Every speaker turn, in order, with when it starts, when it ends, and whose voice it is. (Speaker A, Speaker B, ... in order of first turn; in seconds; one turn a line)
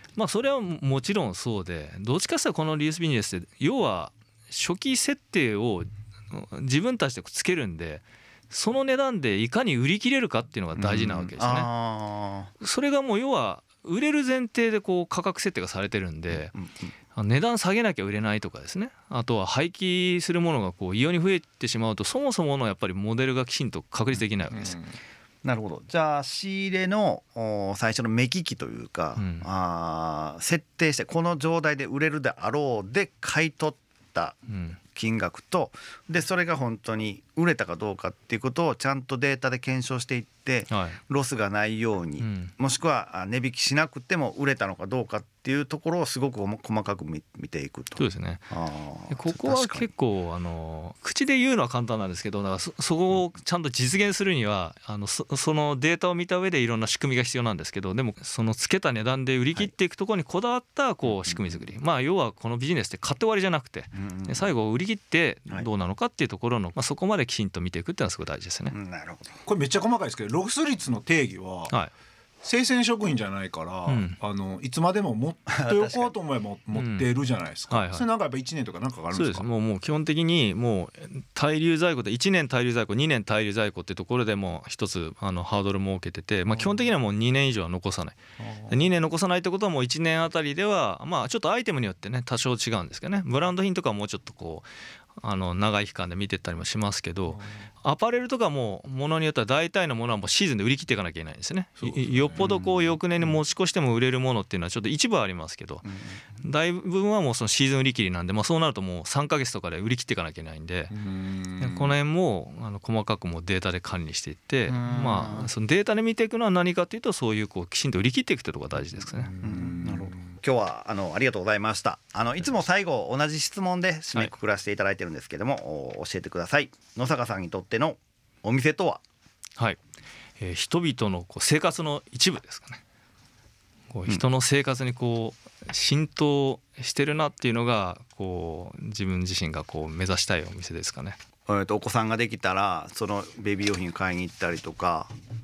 Speaker A: 0.1-11.7
Speaker B: 10.8-12.5
Speaker A: 12.6-16.5
Speaker B: 16.5-16.9
Speaker A: 17.1-24.8
Speaker C: 24.5-24.8
Speaker B: 25.4-34.4
Speaker A: 29.2-29.5
Speaker A: 34.5-34.8
Speaker B: 35.0-49.9
Speaker A: 40.7-41.0
Speaker A: 42.2-42.5
Speaker A: 48.0-48.5
Speaker A: 49.1-68.8
Speaker B: 61.3-61.6
Speaker B: 63.9-64.5
Speaker B: 68.7-69.4
Speaker C: 69.5-71.7
Speaker C: 72.4-79.5
Speaker A: 73.9-74.2
Speaker B: 75.5-76.1
Speaker A: 76.8-77.1
Speaker A: 77.7-78.1
Speaker A: 79.1-88.2
Speaker C: 86.5-86.9
Speaker C: 88.4-88.8
Speaker A: 88.7-105.9
Speaker C: 97.3-97.7
Speaker C: 101.8-102.6
Speaker B: 102.4-102.9
Speaker B: 105.9-106.2
Speaker A: 106.4-110.9
Speaker C: 110.9-112.0
Speaker A: 111.6-119.3
Speaker B: 114.7-115.5
Speaker C: 119.1-120.3
Speaker B: 119.4-129.0
Speaker A: 130.4-132.8
Speaker A: 133.9-141.2
Speaker B: 141.5-145.1